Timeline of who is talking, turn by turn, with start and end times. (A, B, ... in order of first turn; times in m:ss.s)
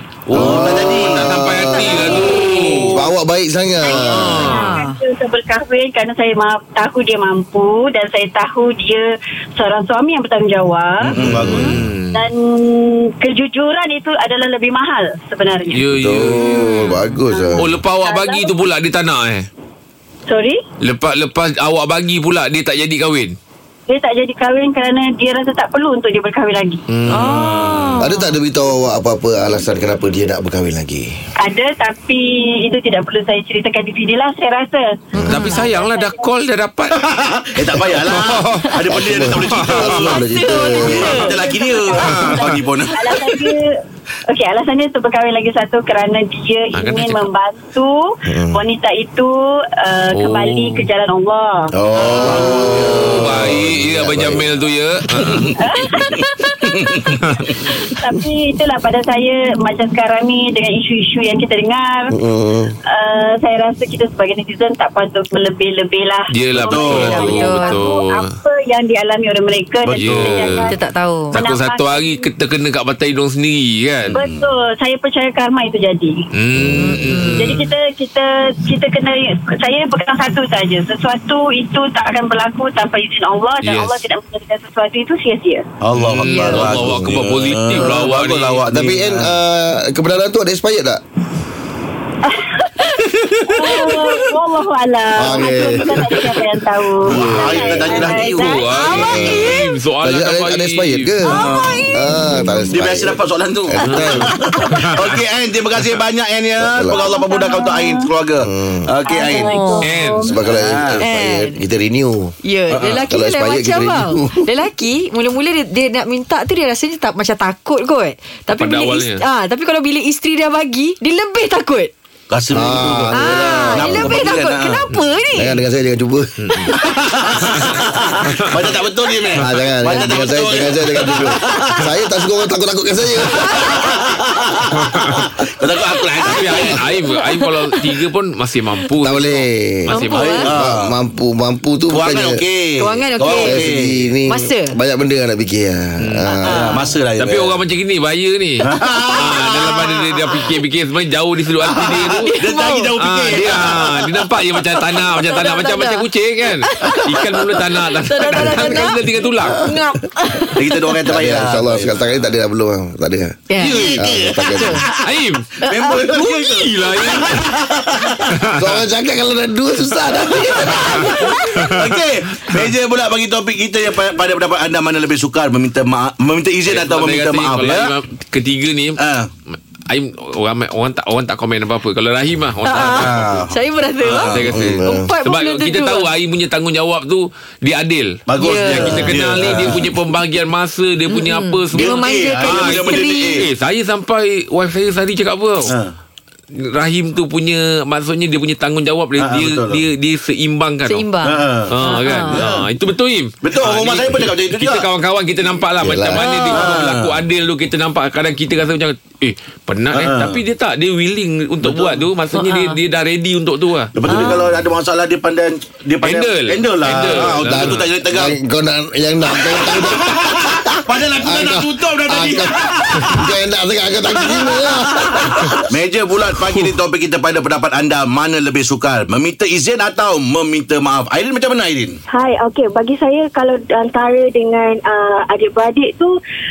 0:00.3-0:01.4 A
0:00.3-0:04.5 B
0:00.4-0:03.0 C
0:01.7-0:02.8 D
0:02.5-0:02.9 A
0:03.8-0:11.2 D
0:04.0-0:04.8 C
0:04.4-0:05.0 E
0:11.0-0:11.9 A
0:11.2-0:12.2 C
0:12.1-0:15.9 D
0:15.7-0:16.7 C
0:16.0-0:17.7 B
0:17.4-0:18.6 D
0:17.6-0:19.5 C
0:20.3-0:20.6 D
0:20.8-0:23.4 C
0:23.9-0:26.8 D
0:26.9-0:27.7 C
0:27.1-0:28.0 A
0:27.1-0:28.4 E
0:28.0-0:31.2 B
0:31.4-0:36.3 D
0:35.2-0:35.5 B
0:35.2-0:35.6 E
0:35.2-0:37.0 C
0:36.9-0:43.3 A
0:37.9-0:38.8 C
0:38.8-0:41.2 B
0:39.3-0:40.3 C
0:40.6-0:43.7 D
0:41.9-0:42.6 C
0:44.3-0:51.7 D
0:46.7-0:47.3 C
0:48.3-0:48.6 B
0:50.1-0:50.9 C
0:51.8-0:53.6 A
0:52.0-0:54.5 B
0:52.1-0:55.5 C
0:55.1-0:57.6 A
0:55.6-0:56.6 D
0:57.7-1:02.1 D
1:02.1-1:02.8 B
1:02.9-1:10.8 D
1:06.3-1:08.4 C
1:06.6-1:07.5 A
1:07.2-1:07.8 E
1:09.8-1:10.7 A
1:10.0-1:10.7 C
1:10.7-1:11.4 E
1:11.3-1:12.3 D
1:11.3-1:14.2 C
1:14.0-1:14.5 A
1:14.2-1:16.3 D
1:16.3-1:17.6 C
1:16.6-1:16.9 A
1:16.8-1:17.5 E
1:17.4-1:25.7 D
1:23.6-1:24.0 C
1:25.8-1:29.3 A
1:26.0-1:28.6 C
1:26.3-1:26.7 E
1:28.7-1:31.0 B
1:32.3-1:32.7 D
1:33.4-1:33.7 A
1:33.5-1:38.8 D
1:35.2-1:36.0 B
1:37.1-1:38.6 A
1:37.1-1:38.0 B
1:38.3-1:41.2 C
1:38.7-1:39.6 E
1:39.0-1:41.4 B
1:41.3-1:42.0 A
1:41.3-1:42.7 E
1:41.9-1:43.2 B
1:42.7-1:49.6 A
1:43.7-1:44.3 B
1:43.8-1:45.2 C
1:46.6-1:47.0 B
1:46.9-1:48.1 D
1:48.4-1:48.9 B
1:49.1-1:50.3 D
1:49.2-1:49.9 E
1:49.8-1:50.3 C
1:50.3-1:52.4 B
1:50.4-1:51.0 A
1:51.0-1:51.6 E
1:52.4-2:01.9 E
1:52.7-1:53.0 A
1:53.1-1:54.5 B
1:58.6-1:59.2 C
2:02.3-2:04.8 A
2:02.5-2:04.3 B
2:03.1-2:05.6 E
2:05.4-2:06.7 B
2:06.4-2:06.7 C
2:06.7-2:11.8 A
2:07.5-2:08.7 C
2:09.4-2:13.7 B
2:13.6-2:16.8 A
2:14.8-2:15.3 C
2:16.3-2:20.5 C
2:17.1-2:17.8 E
2:19.0-2:19.9 B
2:19.9-2:20.5 E
2:20.1-2:20.9 A
2:20.5-2:22.4 B
2:21.9-2:24.0 A
2:22.8-2:23.6 E
2:23.4-2:26.7 B
2:24.3-2:24.7 E
2:26.0-2:26.4 C
2:26.4-2:26.8 E
2:26.5-2:27.6 A
2:27.2-2:28.7 C
2:28.6-2:29.7 A
2:29.2-2:32.3 C
2:31.6-2:34.0 A
2:32.2-2:32.9 E
2:33.0-2:39.6 C
2:35.2-2:36.0 E
2:36.6-2:37.0 E
2:38.0-2:39.0 E
2:39.5-2:40.7 E
2:40.6-2:42.0 A
2:41.1-2:43.4 B
2:43.5-2:43.9 E
2:43.6-2:45.0 A
2:44.0-2:44.8 B
2:44.5-2:44.8 E
2:45.0-2:47.5 C
2:45.6-2:46.5 E
2:45.6-2:48.3 A
2:48.4-2:48.8 C
2:48.6-2:51.3 B
2:50.5-2:57.9 A
2:51.0-2:52.0 C
2:56.7-2:59.0 C
2:59.0-2:59.3 A
2:59.9-3:03.4 C
3:02.7-3:06.1 E
3:02.7-3:04.6 A
3:04.0-3:15.7 C
3:04.5-3:05.1 B
3:08.3-3:10.0 A
3:08.4-3:09.1 E
3:11.1-3:13.4 E
3:11.7-3:13.5 A
3:15.7-3:15.9 A
3:16.5-3:21.1 C
3:19.2-3:19.8 A
3:20.9-3:22.4 E
3:21.2-3:21.7 A
3:21.7-3:34.3 C
3:22.3-3:22.7 A
3:23.4-3:24.9 A
3:25.8-3:26.2 B
3:26.2-3:26.8 E
3:26.5-3:27.2 A
3:29.9-3:30.4 A
3:31.6-3:32.1 A
3:32.4-3:32.8 E
3:34.0-3:38.4 A
3:36.0-3:37.9 C
3:37.4-3:45.7 B
3:39.3-3:43.3 A
3:44.2-3:52.0 A
3:52.1-3:56.2 F